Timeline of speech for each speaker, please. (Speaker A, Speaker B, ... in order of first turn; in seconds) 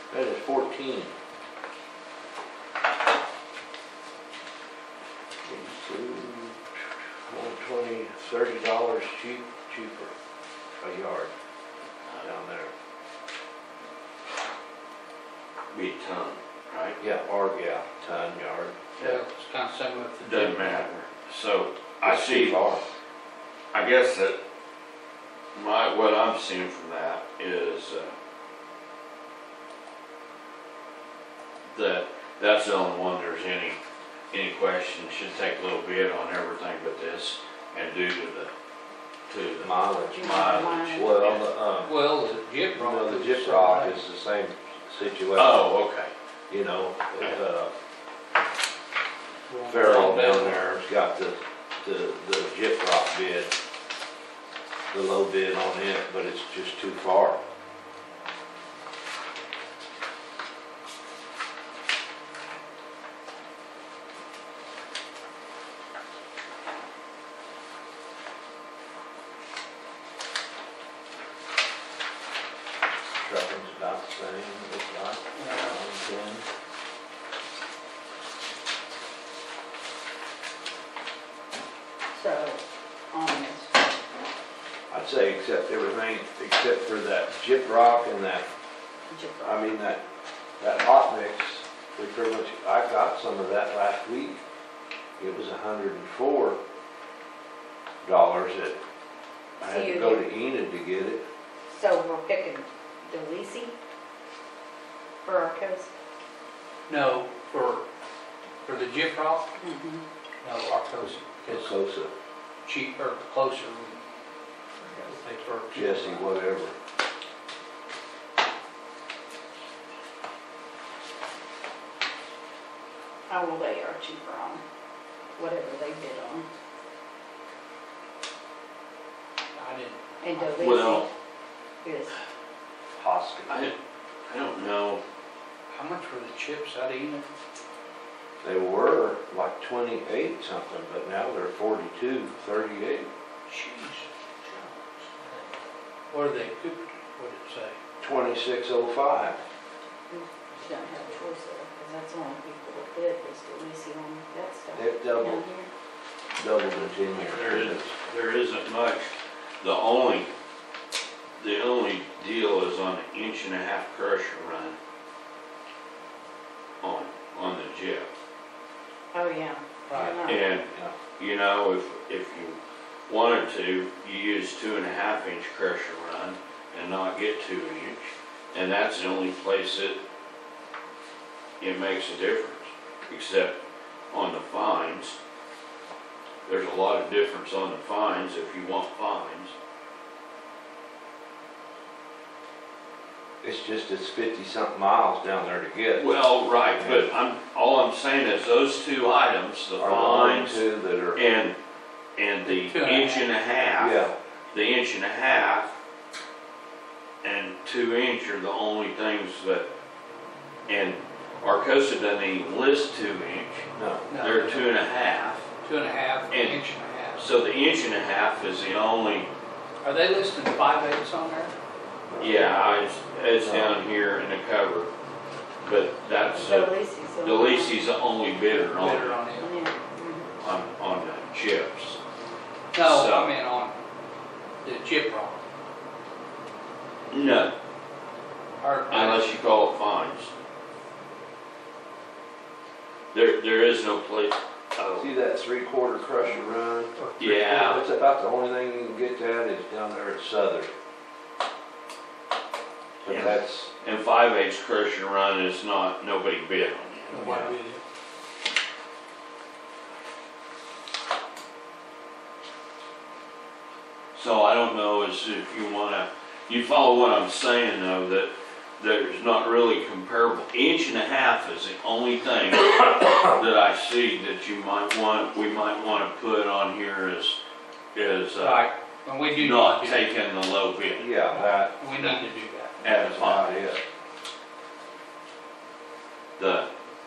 Speaker A: 0.1-1.1, 5.4-10.1, 10.8-11.3, 12.2-12.7, 17.0-18.9, 22.0-22.8, 39.6-42.0, 42.8-45.6, 46.5-47.7, 49.7-53.5, 54.9-57.4, 73.2-76.5, 84.9-88.5, 89.4-90.0, 90.6-94.4, 95.2-96.6, 98.0-98.8, 99.6-101.2, 111.5-112.1, 115.7-116.8, 132.9-133.7, 138.4-143.1, 148.0-149.4, 154.7-155.4, 156.4-157.9, 170.7-171.0, 193.4-196.1, 196.7-197.1, 199.8-201.2, 203.8-204.1, 213.7-214.1, 222.1-222.5, 223.4-223.8, 244.9-250.7, 253.0-253.7, 281.0-281.8, 282.8-283.8
Speaker B: 15.7-17.0, 20.2-22.6, 23.7-24.4, 25.5-28.1, 31.7-33.8, 34.3-38.5, 39.3-41.5, 45.4-46.1, 130.6-131.1, 133.5-133.7, 134.3-135.0, 157.2-160.3, 161.4-164.8, 166.8-168.1, 170.2-180.0, 181.6-183.6, 184.1-185.2, 186.4-189.5, 195.9-201.6, 202.2-205.7, 207.2-209.7, 210.7-215.5, 216.3-216.6, 217.1-219.3, 222.2-224.9, 225.6-229.2, 230.4-232.0, 232.8-233.3, 237.1-237.5, 238.9-240.3, 243.1-245.1, 247.2-247.8, 253.1-257.5, 264.1-277.4, 277.9-278.6, 279.3-281.1, 282.8-283.6, 286.4-286.7
Speaker C: 19.0-20.8, 41.9-44.0, 49.5-50.7, 106.9-107.8, 108.6-109.5, 110.4-111.7, 112.6-114.0, 114.9-116.3, 129.5-130.6, 135.7-137.2, 143.5-145.1, 146.1-147.8, 169.9-170.2, 202.4-203.2, 214.1-214.7, 215.6-217.3, 219.8-221.5, 228.5-229.5, 232.7-233.8, 234.6-235.4, 238.6-239.3, 246.9-247.8, 257.1-257.8, 278.4-280.0, 281.3-282.8
Speaker D: 40.0-41.0, 82.1-83.9, 89.1-89.8, 99.6-100.2, 101.7-103.7, 105.2-105.9, 109.6-110.0, 123.3-124.6, 125.4-126.5, 130.2-131.1, 131.8-132.2, 150.1-155.7, 169.1-170.4, 226.3-227.9, 229.4-230.3